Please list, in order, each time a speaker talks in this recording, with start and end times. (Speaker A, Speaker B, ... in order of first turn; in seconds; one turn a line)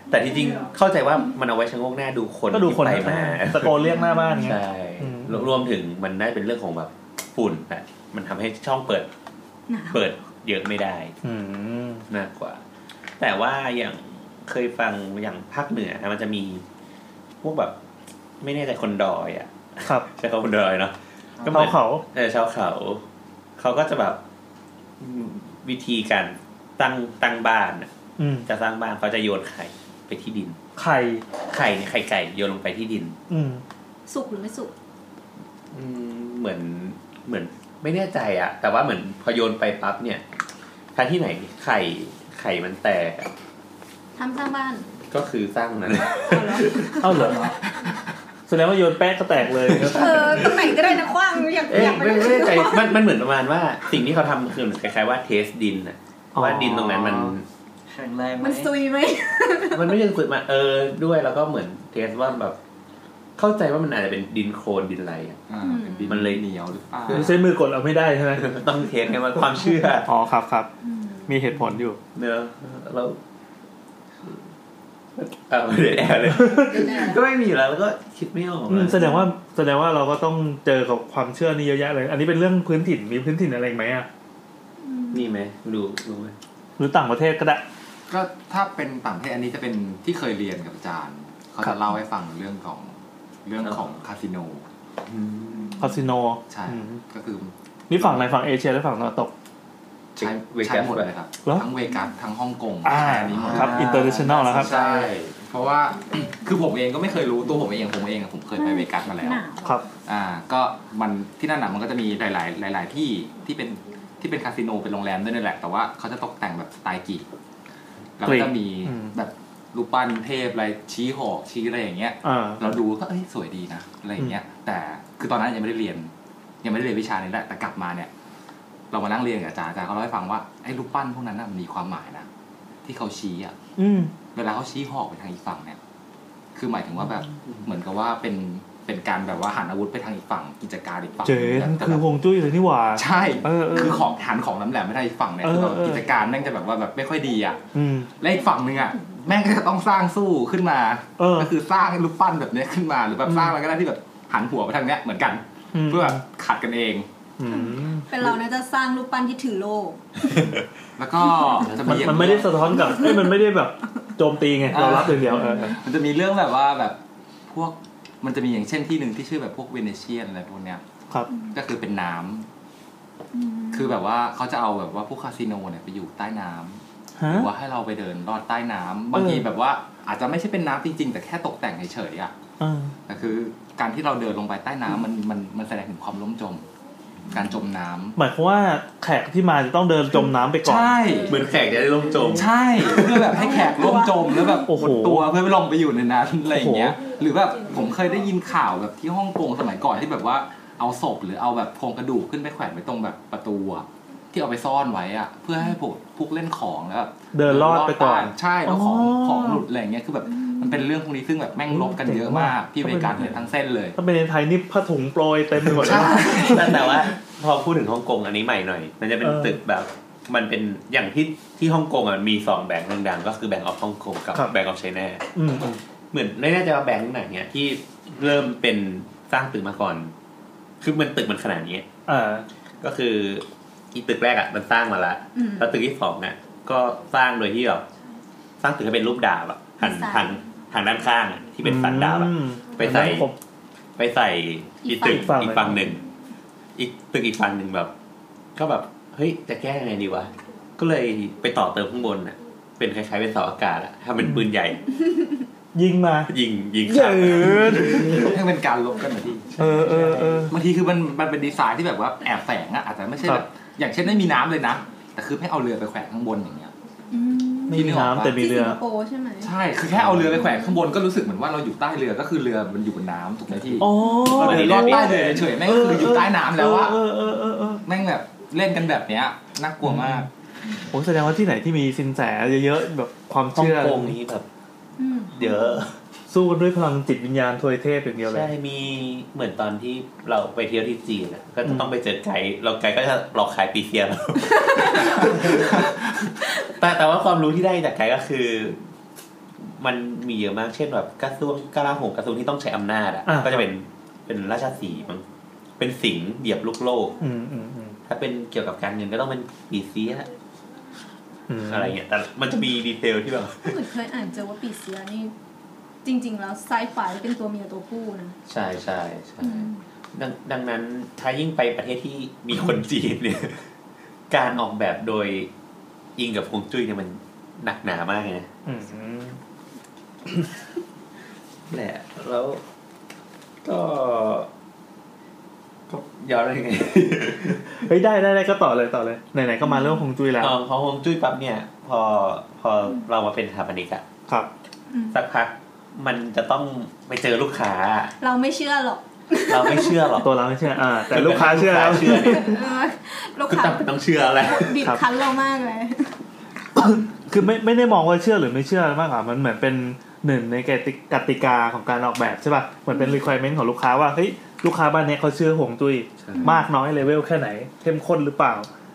Speaker A: 0.1-9.1
Speaker B: 2.5-5.5
Speaker C: 3.8-4.5
Speaker C: 9.7-10.0
Speaker A: 9.9-11.1
Speaker B: 11.2-12.0
Speaker A: 12.1-12.6
Speaker A: 13.2-16.6
Speaker A: 17.4-17.8
Speaker A: 18.4-23.0
Speaker D: 21.4-21.6
Speaker B: 21.5-22.0
Speaker A: 23.6-24.2
Speaker A: 25.0-27.9
Speaker B: 28.2-28.5
Speaker A: 28.5-30.6
Speaker B: 30.8-31.2
Speaker A: 31.5-33.2
Speaker B: 33.3-33.6
Speaker C: 34.1-34.7
Speaker A: 35.7-40.2
Speaker A: 40.9-43.3
Speaker C: 44.1-44.9
Speaker A: 45.1-47.3
Speaker C: 46.1-47.0
Speaker B: 47.0-47.5
Speaker B: 48.5-50.6
Speaker A: 49.7-50.6
Speaker C: 49.9-52.9
Speaker A: 51.7-57.4
Speaker B: 56.3-57.3
Speaker D: 57.9-58.7
Speaker C: 58.4-59.9
Speaker A: 59.7-62.6
Speaker A: 63.4-65.4
Speaker E: 65.5-67.3
Speaker C: 65.6-66.2
Speaker A: 66.0-67.4
Speaker B: 67.1-68.5
Speaker A: 68.3-70.1
Speaker B: 69.9-70.7
Speaker C: 70.8-71.3
Speaker B: 71.3-72.0
Speaker A: 72.1-73.2
Speaker A: 75.2-79.0
Speaker B: 76.3-76.8
Speaker C: 76.5-77.2
Speaker B: 78.7-84.1
Speaker C: 79.0-79.3
Speaker C: 84.8-85.3
Speaker A: 85.1-86.3
Speaker B: 86.8-87.6
Speaker E: 88.1-94.6
Speaker A: 95.0-95.8
Speaker B: 95.8-97.0
Speaker E: 96.5-98.2
Speaker B: 97.9-99.3
Speaker E: 100.2-109.4
Speaker A: 100.2-101.1
Speaker B: 102.8-104.7
Speaker D: 103.5-104.3
Speaker A: 104.5-105.3
Speaker C: 108.5-109.7
Speaker E: 110.0-117.3
Speaker E: 118.2-126.1
Speaker B: 118.2-119.1
Speaker B: 122.2-122.7
Speaker E: 126.6-128.1
Speaker E: 128.9-132.3
Speaker E: 132.8-133.5
Speaker B: 133.8-134.1
Speaker E: 134.3-135.8
Speaker E: 136.5-142.0
Speaker B: 141.2-144.0
Speaker E: 142.9-147.6
Speaker B: 145.4-146.1
Speaker B: 147.7-148.1
Speaker E: 148.2-157.1
Speaker B: 151.2-151.5
Speaker B: 155.7-156.2
Speaker B: 157.4-158.1
Speaker C: 157.5-160.5
Speaker E: 161.0-162.8
Speaker A: 161.6-162.4
Speaker B: 161.8-165.7
Speaker C: 162.8-163.2
Speaker E: 164.7-170.8
Speaker C: 165.3-165.8
Speaker E: 171.5-172.5
Speaker C: 173.3-174.0
Speaker E: 173.7-182.3
Speaker B: 177.2-177.5
Speaker B: 179.1-179.5
Speaker B: 182.6-182.9
Speaker E: 183.1-186.6
Speaker E: 187.3-188.2
Speaker B: 188.2-191.0
Speaker E: 190.6-191.4
Speaker A: 191.3-193.3
Speaker B: 192.1-193.2
Speaker E: 192.3-213.9
Speaker C: 193.3-194.6
Speaker B: 194.6-195.3
Speaker B: 196.5-197.0
Speaker B: 207.3-209.6
Speaker C: 210.4-210.6
Speaker B: 211.7-217.0
Speaker E: 215.7-216.9
Speaker A: 215.8-225.2
Speaker B: 219.2-219.6
Speaker B: 225.3-225.8
Speaker A: 226.1-230.1
Speaker A: 230.8-231.9
Speaker B: 232.1-232.4
Speaker A: 232.8-237.8
Speaker C: 235.3-235.7
Speaker A: 238.6-243.3
Speaker C: 239.8-240.4
Speaker B: 241.6-243.4
Speaker A: 244.0-246.0
Speaker C: 244.8-245.3
Speaker B: 244.9-245.9
Speaker A: 246.8-247.9
Speaker A: 248.6-254.8
Speaker B: 254.2-254.5
Speaker B: 255.7-256.3
Speaker A: 256.3-258.3
Speaker B: 256.9-258.3
Speaker E: 257.5-266.7
Speaker A: 259.5-260.4
Speaker B: 259.6-260.5
Speaker C: 267.1-269.5
Speaker B: 267.7-268.8
Speaker E: 267.7-268.4
Speaker E: 269.4-277.0
Speaker A: 269.9-270.3
Speaker C: 270.3-270.8
Speaker B: 273.8-277.8
Speaker A: 274.2-275.5
Speaker E: 277.8-280.3
Speaker B: 279.8-280.3
Speaker B: 280.9-284.1
Speaker A: 283.5-284.5
Speaker C: 285.0-285.8
Speaker A: 285.3-285.9
Speaker B: 286.3-288.5
Speaker A: 288.2-298.8
Speaker B: 291.6-291.9
Speaker C: 294.6-295.3
Speaker A: 299.6-305.2
Speaker B: 303.2-303.7
Speaker A: 305.8-307.1
Speaker B: 307.2-308.0
Speaker A: 308.1-310.3
Speaker B: 311.5-311.9
Speaker A: 311.6-313.8
Speaker C: 313.6-315.3
Speaker C: 316.0-318.3
Speaker A: 318.5-323.7
Speaker C: 319.4-319.8
Speaker A: 324.3-325.5
Speaker A: 326.1-328.5
Speaker B: 328.6-329.4
Speaker A: 331.7-332.6
Speaker A: 333.6-334.5
Speaker A: 335.9-337.8
Speaker B: 337.7-340.6
Speaker C: 339.6-340.0
Speaker A: 340.4-344.0
Speaker C: 344.9-345.2
Speaker A: 345.1-348.1
Speaker C: 348.2-350.1
Speaker A: 349.5-350.3
Speaker B: 350.2-352.6
Speaker A: 351.1-352.6
Speaker C: 352.2-353.9
Speaker A: 353.5-354.9
Speaker C: 354.4-356.2
Speaker B: 356.7-368.7
Speaker C: 362.9-363.2
Speaker A: 366.2-366.5
Speaker C: 366.4-366.7